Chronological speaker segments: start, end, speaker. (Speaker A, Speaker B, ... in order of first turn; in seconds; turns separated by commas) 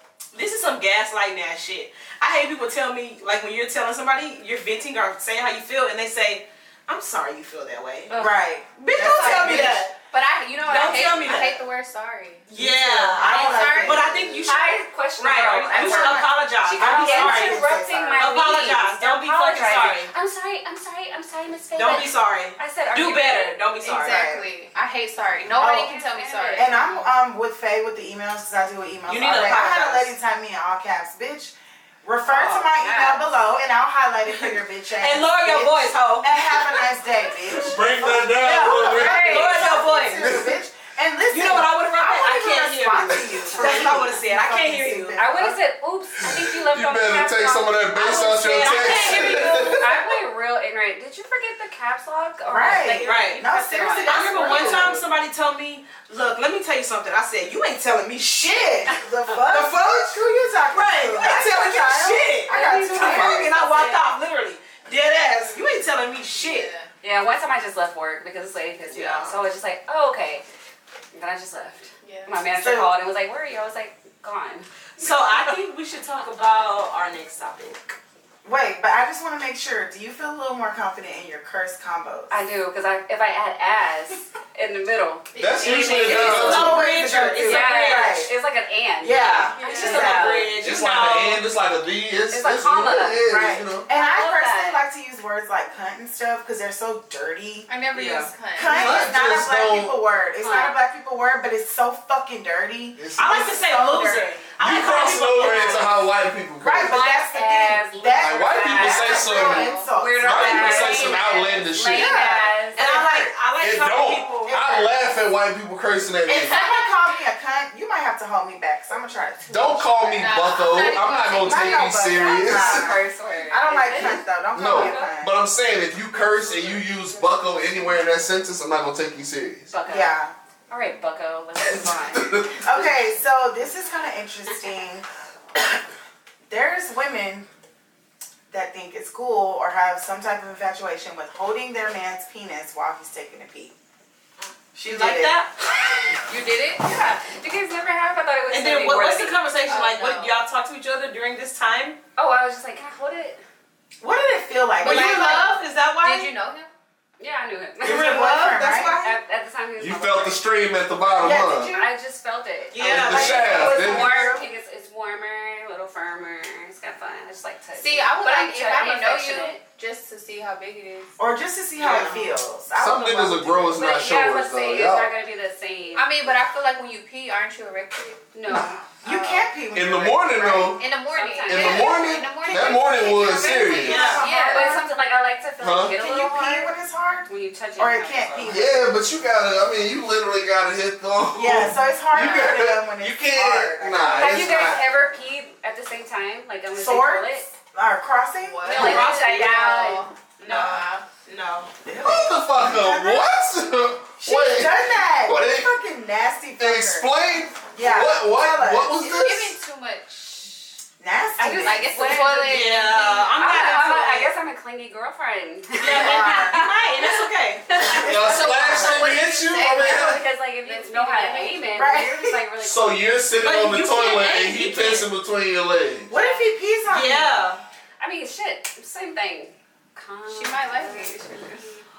Speaker A: 0.3-8.1, Speaker B: 8.1-8.4, Speaker C: 8.2-9.9, Speaker A: 8.8-9.9, Speaker D: 9.1-12.5, Speaker A: 10.6-11.6, Speaker A: 12.5-20.1, Speaker C: 12.6-14.5, Speaker D: 13.1-14.1, Speaker B: 14.4-23.6, Speaker C: 15.7-18.3, Speaker A: 21.8-24.3, Speaker D: 23.8-26.7, Speaker C: 23.9-24.5, Speaker B: 25.6-27.1, Speaker C: 25.6-25.9, Speaker C: 26.6-45.6, Speaker A: 29.1-30.1, Speaker B: 32.3-33.3, Speaker A: 34.3-36.9, Speaker E: 37.5-40.6, Speaker A: 38.4-40.3, Speaker B: 39.0-39.6, Speaker A: 41.3-45.2, Speaker B: 43.5-44.0, Speaker B: 45.2-55.0, Speaker E: 46.2-50.0, Speaker A: 48.1-49.9, Speaker C: 52.5-55.0, Speaker A: 53.0-53.5, Speaker A: 54.0-58.9, Speaker C: 58.2-63.5, Speaker A: 59.5-60.1, Speaker A: 60.7-66.7, Speaker B: 62.5-64.1, Speaker D: 66.3-66.9, Speaker B: 67.0-70.4, Speaker A: 68.9-69.4, Speaker B: 71.1-74.7, Speaker D: 72.0-72.4, Speaker C: 72.5-72.9, Speaker A: 75.0-78.0, Speaker C: 78.4-82.4, Speaker B: 82.3-86.8, Speaker D: 85.3-86.4, Speaker E: 85.4-86.9, Speaker A: 86.0-88.2, Speaker C: 86.1-88.3, Speaker B: 87.4-90.5, Speaker A: 89.0-91.5, Speaker C: 89.0-90.5, Speaker D: 89.5-90.2, Speaker E: 90.6-93.8, Speaker B: 92.3-93.3, Speaker C: 93.2-97.7, Speaker B: 93.9-94.8, Speaker D: 97.7-99.0, Speaker A: 97.9-98.3, Speaker C: 98.5-104.4, Speaker E: 98.6-100.0, Speaker B: 100.4-100.8, Speaker E: 103.0-103.5, Speaker A: 103.2-105.9, Speaker E: 104.6-107.0, Speaker C: 106.6-113.4, Speaker B: 106.9-112.8, Speaker E: 108.2-112.3, Speaker D: 109.5-109.9, Speaker A: 112.7-114.7, Speaker E: 113.6-116.6, Speaker C: 114.5-115.0, Speaker C: 116.3-120.3, Speaker D: 116.4-117.0, Speaker E: 119.5-123.0, Speaker D: 120.1-121.9, Speaker C: 121.4-125.3, Speaker B: 122.1-125.1, Speaker E: 124.0-129.7, Speaker B: 129.7-132.6, Speaker C: 129.9-130.3, Speaker E: 131.6-132.9, Speaker C: 132.6-135.1, Speaker C: 136.5-137.5, Speaker C: 138.5-143.7, Speaker C: 144.7-145.3, Speaker A: 144.9-145.5, Speaker D: 146.3-146.8, Speaker B: 146.8-149.4, Speaker A: 148.5-152.0, Speaker D: 149.7-150.4, Speaker B: 152.2-153.4, Speaker C: 154.0-155.5, Speaker D: 154.8-156.7, Speaker A: 154.8-156.3, Speaker B: 157.2-160.4, Speaker C: 157.8-159.1, Speaker A: 157.8-159.1, Speaker E: 159.8-161.7, Speaker C: 161.2-161.9, Speaker B: 161.5-169.6, Speaker A: 162.7-163.6, Speaker E: 162.8-164.2, Speaker C: 163.0-164.5, Speaker D: 167.7-171.2, Speaker C: 171.2-173.9, Speaker A: 171.8-172.3, Speaker E: 172.8-175.1, Speaker B: 173.8-176.2, Speaker D: 175.9-178.2, Speaker B: 178.3-179.2, Speaker C: 178.5-180.8, Speaker E: 179.7-180.8, Speaker D: 180.8-184.9, Speaker B: 181.1-182.3, Speaker E: 181.5-184.1, Speaker B: 183.0-186.7, Speaker C: 183.2-184.8, Speaker A: 183.8-184.2, Speaker E: 185.6-186.0, Speaker C: 185.9-188.9, Speaker B: 187.3-188.6, Speaker E: 188.4-194.8, Speaker C: 191.3-194.8, Speaker B: 194.2-197.5, Speaker C: 196.7-199.1, Speaker D: 198.4-201.1, Speaker B: 198.6-200.9, Speaker A: 198.7-199.6, Speaker A: 201.2-201.7, Speaker C: 201.8-203.3, Speaker E: 202.0-205.7, Speaker C: 204.2-207.1, Speaker E: 206.6-209.6, Speaker C: 207.7-209.2, Speaker D: 209.1-210.8, Speaker C: 211.0-212.1, Speaker B: 211.4-223.1, Speaker D: 211.6-213.9, Speaker A: 212.4-214.3, Speaker A: 215.8-217.9, Speaker C: 215.8-216.6, Speaker E: 217.9-220.2, Speaker C: 218.0-218.9, Speaker D: 218.0-221.7, Speaker C: 221.7-222.4, Speaker E: 222.6-226.1, Speaker A: 223.4-225.1, Speaker C: 226.1-227.5, Speaker B: 226.1-226.5, Speaker A: 226.9-227.6, Speaker B: 228.0-231.8, Speaker D: 230.3-231.8